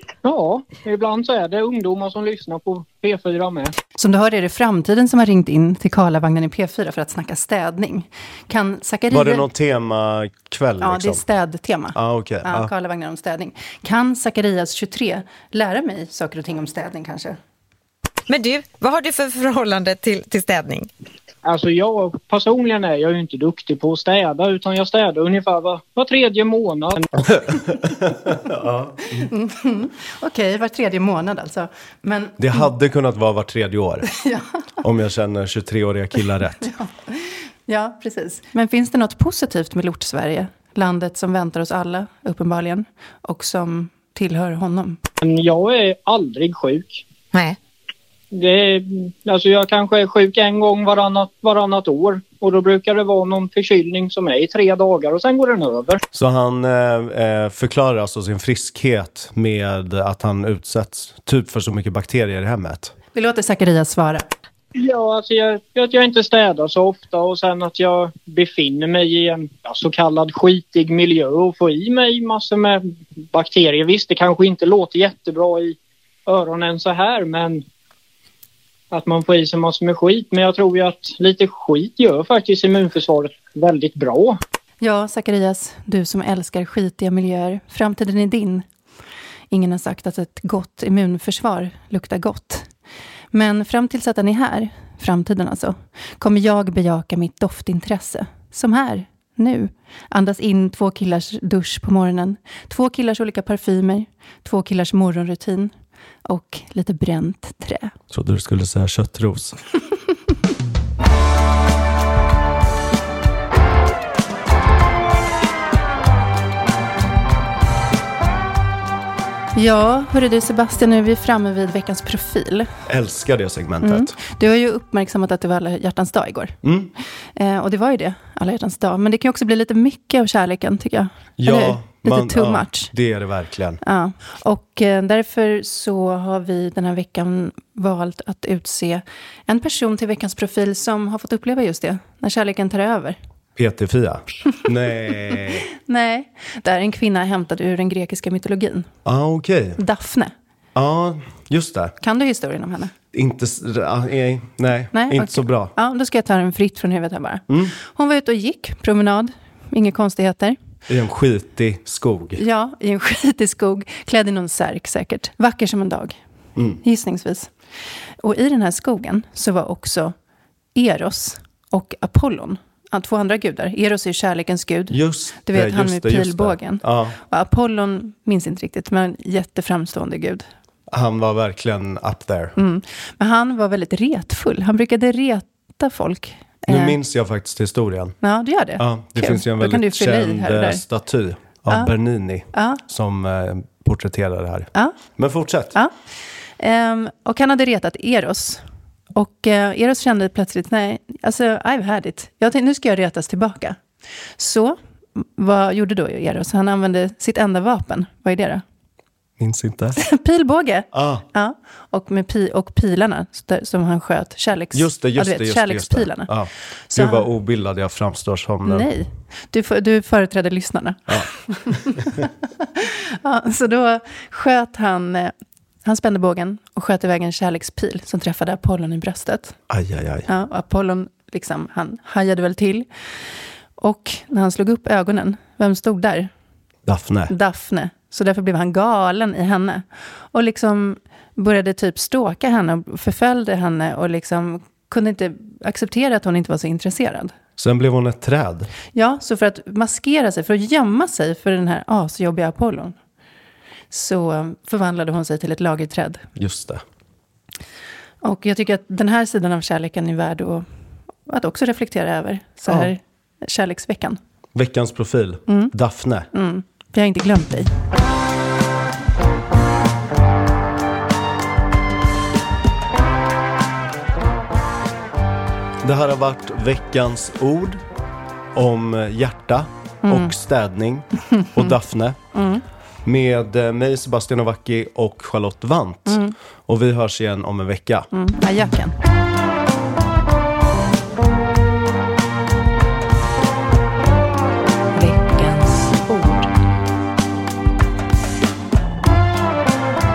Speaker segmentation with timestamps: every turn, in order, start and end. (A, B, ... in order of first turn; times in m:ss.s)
0:00.2-0:03.8 A
0:04.0-0:09.5 B
0:09.1-0:11.2 C
0:10.8-0:17.4 B
0:11.9-0:12.7 C
0:18.3-0:20.9 D
0:21.4-0:27.1 A
0:27.3-0:29.3 C
0:29.1-0:32.7 B
0:32.4-0:34.1 C
0:34.1-0:34.5 B
0:34.8-0:36.7 C
0:36.6-0:45.0 B
0:45.2-0:47.0 A
0:48.3-0:56.0 A
0:56.1-1:02.9 C
1:03.1-1:04.3 B
1:04.8-1:17.6 A
1:18.9-1:24.4 A
1:24.8-1:28.7 B
1:29.5-1:32.7 B
1:33.3-1:45.7 B
1:46.2-1:48.0 B
1:48.1-1:49.6 C
1:59.6-2:02.7 B
2:02.9-2:04.2 C
2:03.8-2:06.6 B
2:06.6-2:06.9 C
2:07.3-2:12.9 B
2:11.4-2:13.8 C
2:13.8-2:23.2 B
2:23.6-2:25.7 C
2:25.3-2:28.9 B
2:29.0-2:29.8 C
2:29.8-2:30.3 B
2:30.8-2:32.0 C
2:32.0-2:32.9 B
2:33.1-2:35.7 C
2:34.9-2:40.6 B
2:37.5-2:37.8 C
2:40.9-2:42.4 C
2:42.4-2:46.2 B
2:46.8-2:47.5 B
2:48.2-2:50.1 B
2:50.8-3:00.4 B
2:54.9-2:57.2 C
3:00.9-3:02.6 C
3:02.6-3:07.0 B
3:06.7-3:08.2 C
3:08.2-3:10.8 B
3:08.8-3:15.8 C
3:12.5-3:12.8 B
3:16.6-3:23.8 B
3:24.4-3:28.6 B
3:29.4-3:30.0 C
3:30.0-3:36.3 B
3:30.9-3:31.2 C
3:34.7-3:38.9 C
3:36.9-3:37.3 B
3:38.6-3:45.3 B
3:41.1-3:42.2 C
3:45.8-3:49.6 B
3:49.7-3:50.3 C
3:50.3-3:52.9 B
3:53.8-3:56.3 B
3:56.9-3:57.3 C
3:57.3-4:07.4 B
4:07.6-4:08.7 C
4:08.9-4:13.0 B
4:13.9-4:16.2 B
4:16.4-4:16.8 C
4:18.2-4:20.6 B
4:21.3-4:24.2 B
4:22.7-4:22.9 C
4:24.5-4:26.3 C
4:25.5-4:25.7 B
4:26.3-4:27.7 B
4:35.8-4:37.8 C
4:38.6-4:42.2 C
4:40.0-4:40.3 B
4:42.3-4:42.6 B
4:43.0-4:48.1 C
4:46.1-4:46.4 B
4:48.1-4:49.0 B
4:54.9-4:56.5 B